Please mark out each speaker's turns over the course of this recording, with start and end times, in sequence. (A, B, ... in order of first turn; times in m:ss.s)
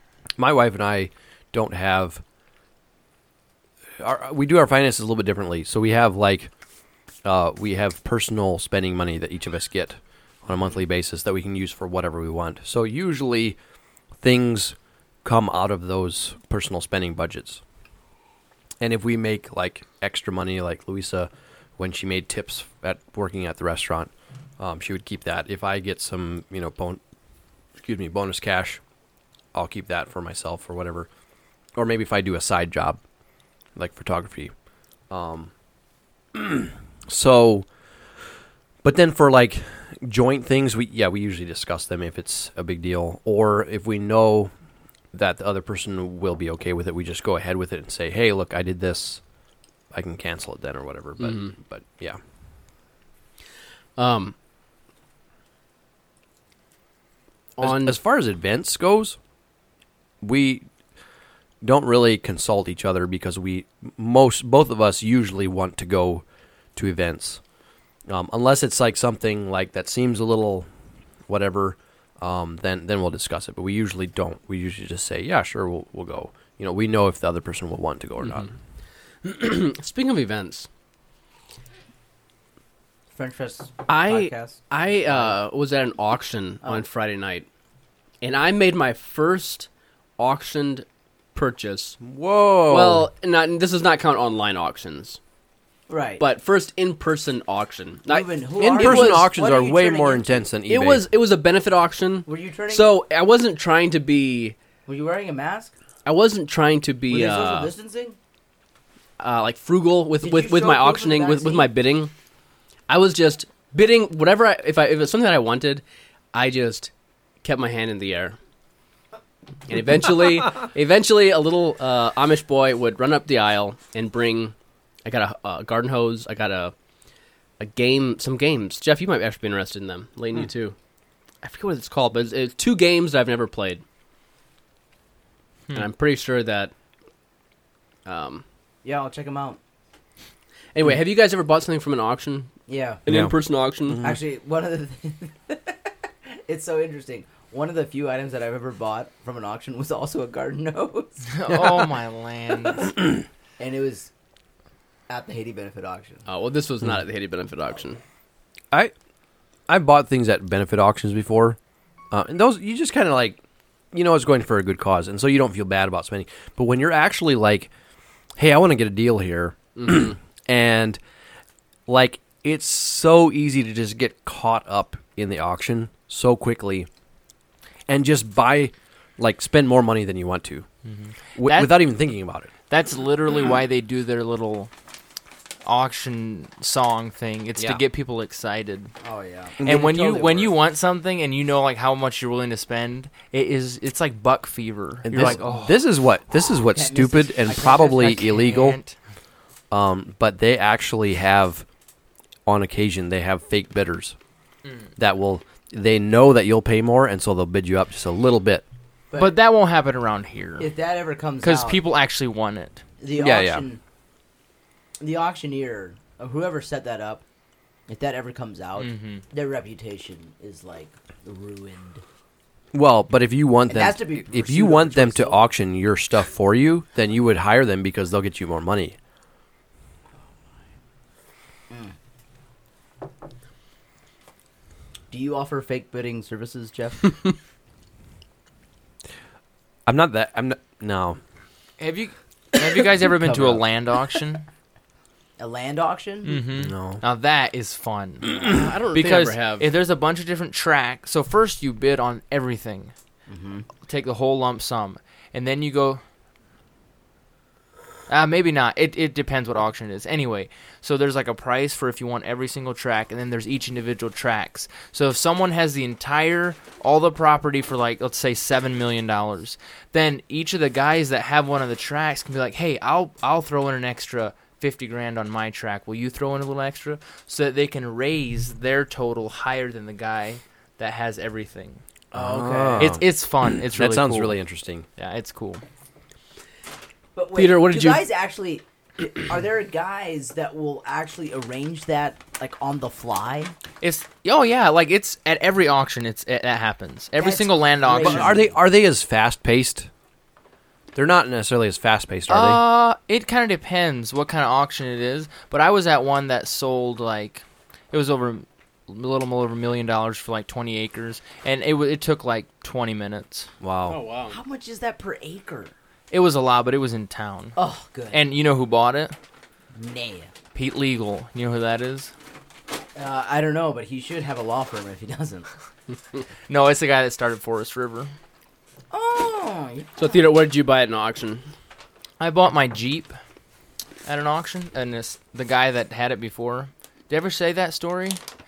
0:00.4-0:02.2 A
0:04.0-0:06.5 A
0:07.2-0:13.6 A
0:14.2-0:17.6 A
0:18.8-0:27.0 A
0:27.8-0:28.8 A
0:29.5-0:31.1 A
0:31.8-0:33.0 A
0:33.8-0:34.5 A
0:35.1-0:35.5 A
0:36.3-0:37.7 A
0:38.8-0:44.5 A
0:45.1-0:49.2 A
0:49.9-0:52.2 A
0:51.2-0:51.5 B
0:54.0-0:54.3 B
0:57.6-0:58.0 B
0:57.6-0:59.2 A
1:00.2-1:00.7 A
1:01.6-1:06.2 A
1:06.8-1:07.4 A
1:08.1-1:10.7 A
1:11.3-1:18.5 A
1:18.2-1:18.5 B
1:19.2-1:20.7 B
1:23.1-1:25.4 C
1:23.9-1:27.5 B
1:28.2-1:32.0 B
1:32.0-1:33.1 A
1:32.7-1:35.2 B
1:35.9-1:36.2 C
1:36.2-1:39.3 B
1:38.1-1:40.5 C
1:38.6-1:41.0 A
1:40.7-1:44.6 B
1:42.3-1:43.0 C
1:44.8-1:45.7 C
1:46.0-1:47.7 B
1:47.1-1:48.2 C
1:49.2-1:52.1 B
1:50.2-1:51.7 C
1:52.9-1:56.9 B
1:57.4-1:58.4 B
1:59.7-2:04.5 B
2:05.0-2:06.7 B
2:07.6-2:10.7 B
2:11.4-2:13.8 B
2:15.7-2:16.7 B
2:18.0-2:18.4 B
2:18.8-2:19.6 C
2:20.7-2:24.0 B
2:22.7-2:23.0 C
2:23.1-2:23.3 A
2:23.9-2:24.2 A
2:24.0-2:25.8 C
2:26.4-2:31.3 C
2:31.2-2:32.9 D
2:31.5-2:31.9 A
2:33.6-2:34.1 C
2:35.1-2:36.2 C
2:36.3-2:38.0 B
2:39.7-2:41.6 A
2:42.1-2:43.4 A
2:43.9-2:47.7 A
2:48.4-2:51.0 A
2:49.8-2:50.1 B
2:51.9-2:56.9 A
2:57.9-3:00.6 A
3:00.8-3:01.8 D
3:01.3-3:02.5 A
3:02.7-3:04.7 D
3:05.6-3:08.9 D
3:09.0-3:10.5 C
3:09.6-3:10.3 A
3:09.6-3:15.8 D
3:15.1-3:18.8 A
3:16.7-3:18.2 C
3:17.8-3:19.0 D
3:19.7-3:21.6 A
3:22.4-3:24.2 A
3:25.0-3:28.6 A
3:29.1-3:29.4 C
3:29.2-3:30.7 D
3:30.6-3:31.8 C
3:31.4-3:32.8 D
3:33.0-3:33.8 C
3:33.2-3:33.7 A
3:35.0-3:37.2 C
3:37.9-3:42.0 C
3:38.8-3:39.2 D
3:42.7-3:49.0 A
3:43.7-3:45.4 C
3:51.7-3:51.9 C
3:55.1-3:57.2 C
3:59.8-4:01.2 A
4:01.8-4:04.4 D
4:03.1-4:03.6 C
4:05.4-4:06.4 C
4:06.2-4:12.9 D
4:06.5-4:07.0 A
4:08.3-4:08.6 A
4:08.4-4:09.7 B
4:13.3-4:13.7 C
4:13.8-4:16.0 D
4:18.1-4:41.8 D
4:42.1-4:43.0 A
4:42.1-4:43.0 C
4:42.8-4:44.4 D
4:43.7-4:44.8 A
4:45.0-4:45.6 D
4:47.1-4:53.5 C
4:47.4-4:48.0 B
4:53.8-4:58.4 D
4:57.2-4:58.6 C
4:58.0-4:59.9 A
5:00.9-5:02.6 A
5:02.3-5:13.5 D
5:13.6-5:14.0 A
5:13.9-5:14.4 B
5:14.3-5:15.7 C
5:16.1-5:17.6 D
5:17.6-5:18.2 C
5:18.1-5:19.1 D
5:19.7-5:20.3 C
5:20.5-5:22.1 D
5:22.9-5:25.5 C
5:26.5-5:28.1 D
5:28.9-5:30.2 C
5:30.0-5:31.5 B
5:32.2-5:33.2 D
5:34.0-5:38.2 D